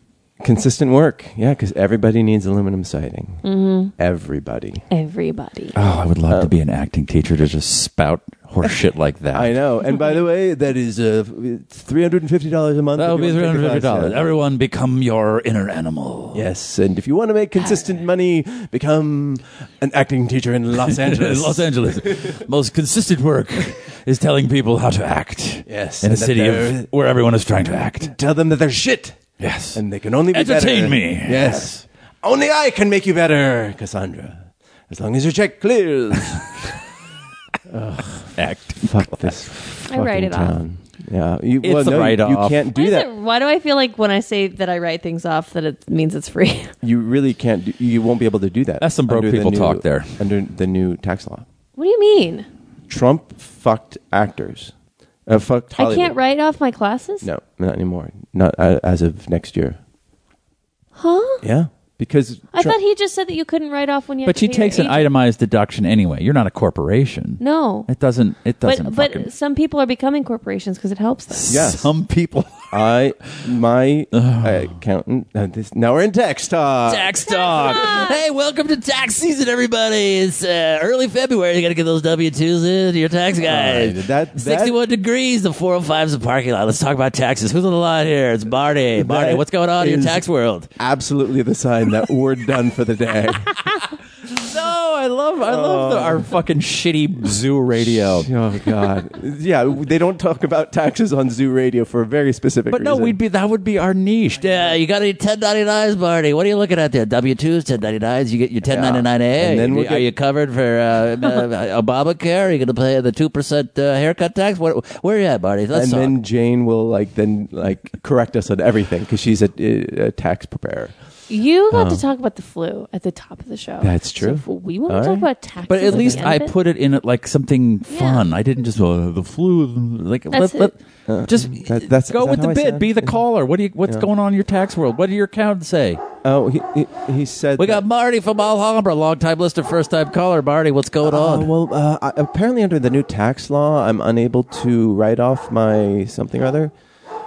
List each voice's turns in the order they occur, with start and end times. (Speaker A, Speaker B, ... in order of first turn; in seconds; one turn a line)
Speaker A: 0.4-3.4
Speaker B: 3.4-3.9
Speaker A: 4.0-4.8
Speaker B: 4.9-5.8
Speaker C: 5.7-9.5
Speaker A: 9.3-14.2
Speaker C: 12.9-16.4
Speaker A: 16.3-22.4
Speaker C: 20.8-28.1
Speaker A: 25.6-26.9
Speaker A: 28.0-36.7
Speaker C: 29.4-31.8
Speaker A: 37.7-43.1
Speaker C: 38.3-39.5
Speaker B: 39.9-40.6
Speaker C: 41.6-42.6
Speaker B: 42.7-46.7
Speaker A: 46.8-51.4
Speaker C: 48.8-50.2
Speaker B: 51.8-52.5
Speaker A: 52.9-54.7
Speaker A: 55.3-56.1
Speaker B: 55.8-57.3
Speaker A: 57.2-59.8
Speaker B: 61.0-61.4
Speaker A: 61.4-62.8
Speaker B: 62.5-65.0
Speaker C: 64.2-69.3
Speaker B: 67.4-67.9
Speaker B: 68.6-71.5
Speaker C: 71.3-72.9
Speaker A: 71.5-71.9
Speaker A: 72.7-77.3
Speaker C: 74.1-74.7
Speaker C: 76.9-90.7
Speaker B: 77.3-78.2
Speaker A: 83.4-84.8
Speaker A: 88.9-90.2
Speaker A: 90.8-93.6
Speaker C: 93.7-98.3
Speaker A: 95.4-96.3
Speaker A: 97.8-103.2
Speaker C: 102.7-116.1
Speaker A: 108.6-110.1
Speaker A: 115.7-120.9
Speaker B: 121.3-126.5
Speaker A: 121.7-122.0
Speaker A: 123.8-125.3
Speaker C: 125.7-136.0
Speaker A: 125.8-126.2
Speaker B: 127.9-128.2
Speaker B: 130.3-130.7
Speaker A: 131.1-133.2
Speaker A: 136.2-137.8
Speaker C: 137.6-141.5
Speaker A: 141.0-146.7